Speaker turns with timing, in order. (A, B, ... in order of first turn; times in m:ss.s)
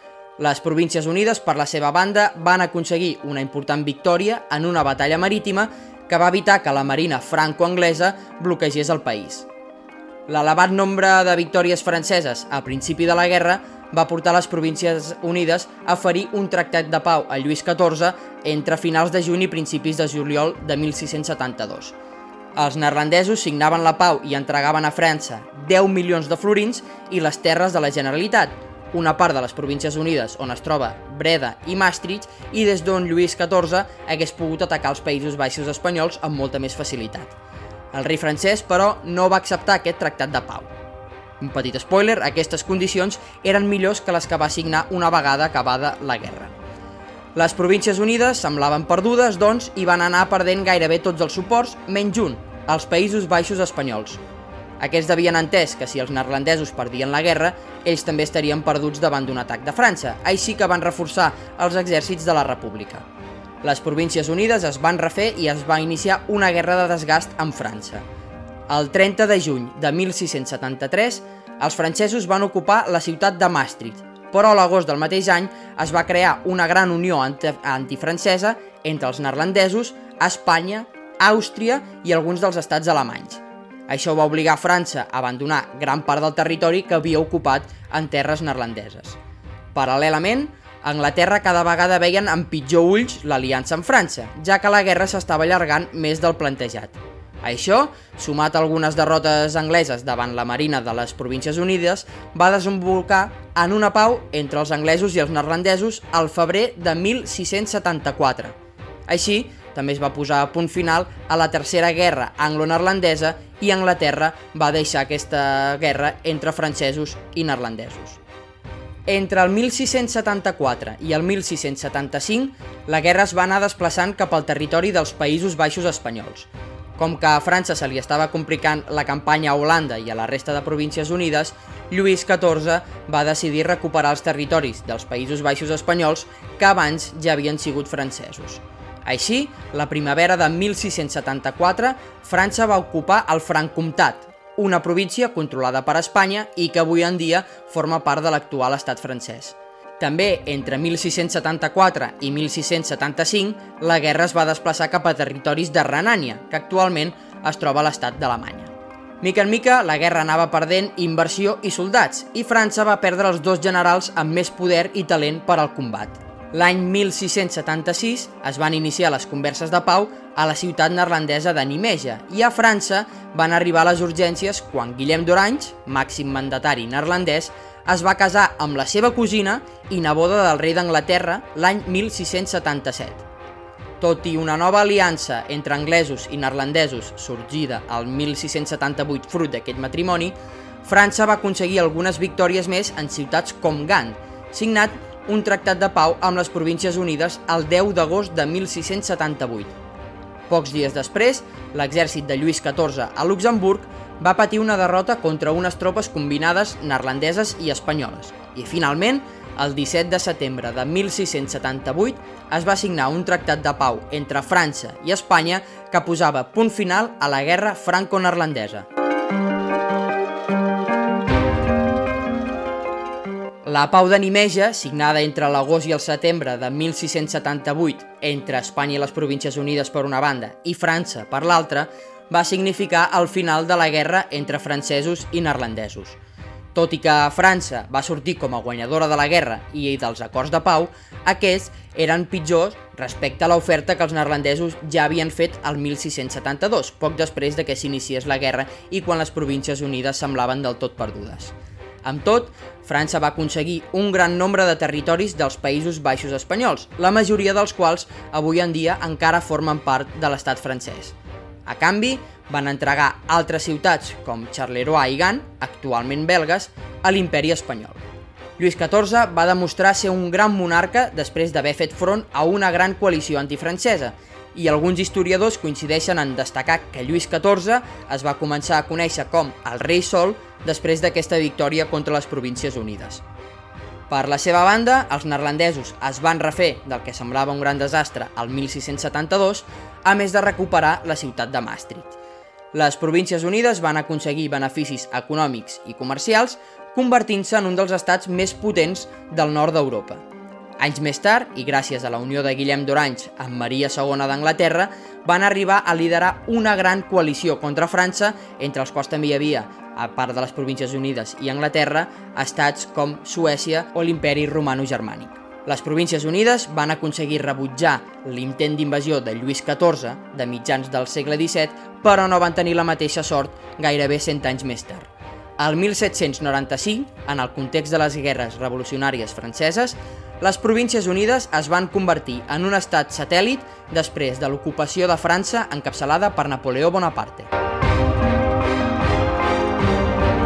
0:00.4-0:09.5 A
0:10.3-0:22.0 A
0:22.6-0:37.3 A
0:37.9-0:40.7 A
0:41.4-0:46.6 A
0:47.4-0:54.2 A
0:54.8-1:03.0 A
1:03.6-1:08.0 A
1:08.7-1:29.2 A
1:29.7-1:48.6 A
1:49.1-1:58.2 A
1:59.1-3:03.2 A
3:04.0-3:19.7 A
3:20.5-3:38.9 A
3:43.6-3:56.2 A
3:56.7-4:28.0 A
4:28.6-4:43.2 A
4:44.1-4:52.2 A
4:52.7-5:00.2 A
5:00.8-5:37.5 A